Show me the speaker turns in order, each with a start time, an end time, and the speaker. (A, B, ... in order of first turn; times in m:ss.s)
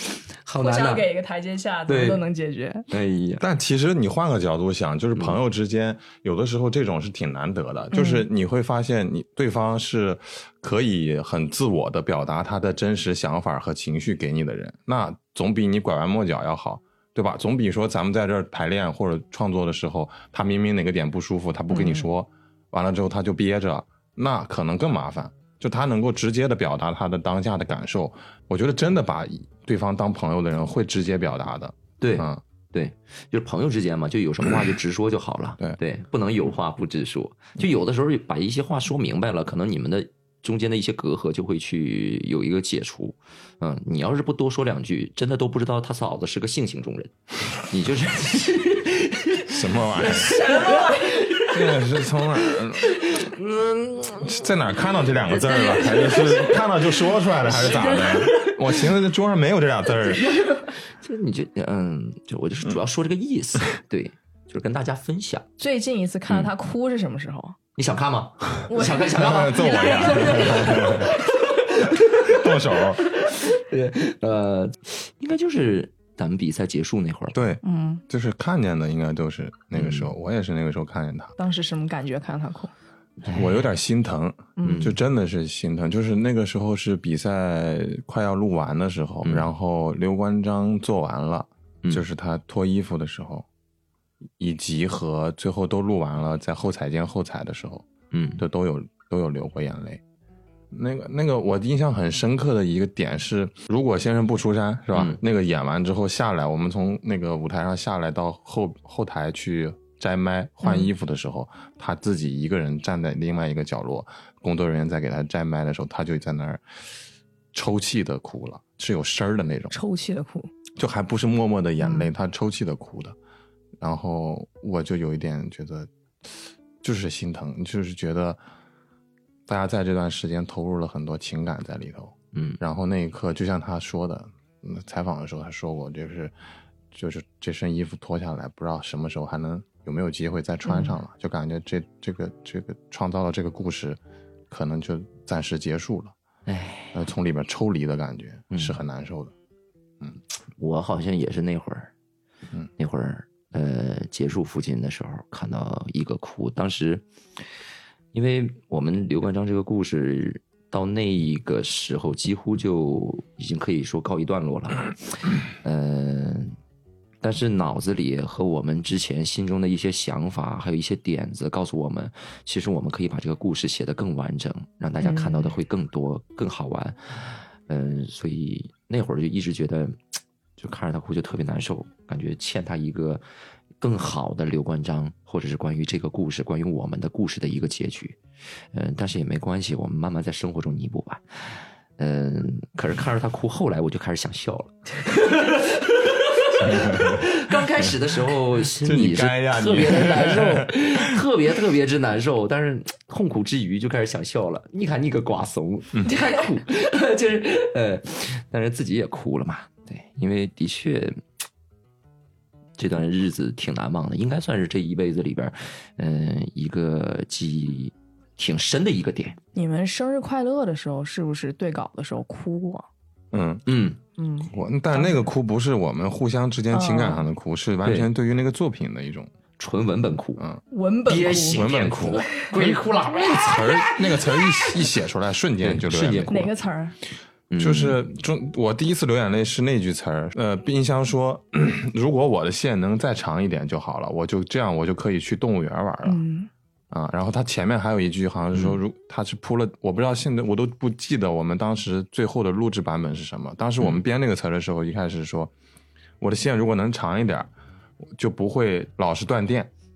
0:00.4-0:01.0 A
0:00.6-0:02.9 B
0:01.9-0:02.2 A
0:02.9-0:03.4 A
0:03.4-0:32.4 C
0:07.9-0:08.3 B
0:21.7-0:22.0 B
0:32.0-0:54.5 A
0:49.5-0:50.4 C
0:50.1-0:51.3 B
0:51.5-0:53.0 C
0:54.2-1:00.4 C
0:55.3-0:56.9 A
0:57.4-0:58.6 A
1:00.3-1:00.6 B
1:00.5-1:05.4 A
1:05.6-1:07.6 B
1:07.8-1:17.4 A
1:08.7-1:11.1 B
1:09.2-1:11.1 C
1:12.2-1:13.1 C
1:17.3-1:21.3 C
1:17.6-1:18.0 B
1:19.7-1:20.1 A
1:21.4-1:22.7 B
1:23.2-1:23.6 A
1:23.3-1:33.4 C
1:24.6-1:24.9 B
1:24.6-1:24.9 A
1:29.2-1:29.5 A
1:34.4-1:37.9 C
1:38.1-1:38.4 A
1:38.4-1:40.0 C
1:40.7-1:56.6 C
1:44.9-1:45.2 A
1:50.6-1:50.9 B
1:57.5-1:59.7 C
1:59.7-2:00.5 B
2:00.8-2:03.2 C
2:01.8-2:02.1 B
2:03.8-2:05.9 C
2:06.8-2:08.4 C
2:09.5-2:16.3 C
2:12.3-2:12.6 A
2:16.9-2:24.0 C
2:20.6-2:21.0 B
2:24.5-2:26.1 C
2:26.5-2:27.0 A
2:26.9-2:29.3 C
2:28.5-2:28.8 A
2:30.6-2:31.9 A
2:32.8-2:37.0 A
2:38.1-2:46.6 A
2:47.2-3:03.2 A
2:55.0-2:55.5 B
3:03.8-3:08.2 A
3:08.7-3:31.2 A
3:16.6-3:17.3 C
3:18.8-3:21.2 C
3:32.8-3:39.4 A
3:39.5-3:42.9 B
3:43.3-3:43.6 C
3:43.6-3:44.0 A
3:44.2-3:45.2 B
3:44.5-3:49.3 C
3:46.7-3:47.2 B
3:47.8-3:48.1 A
3:49.6-3:50.4 A
3:50.7-3:52.3 B
3:51.1-3:54.4 A
3:51.5-3:56.5 C
3:55.6-3:56.5 A
3:56.3-3:57.0 B
3:57.5-3:58.0 A
3:57.6-4:06.2 C
4:06.0-4:06.5 B
4:06.9-4:15.5 C
4:16.2-4:17.5 C
4:18.2-4:19.7 C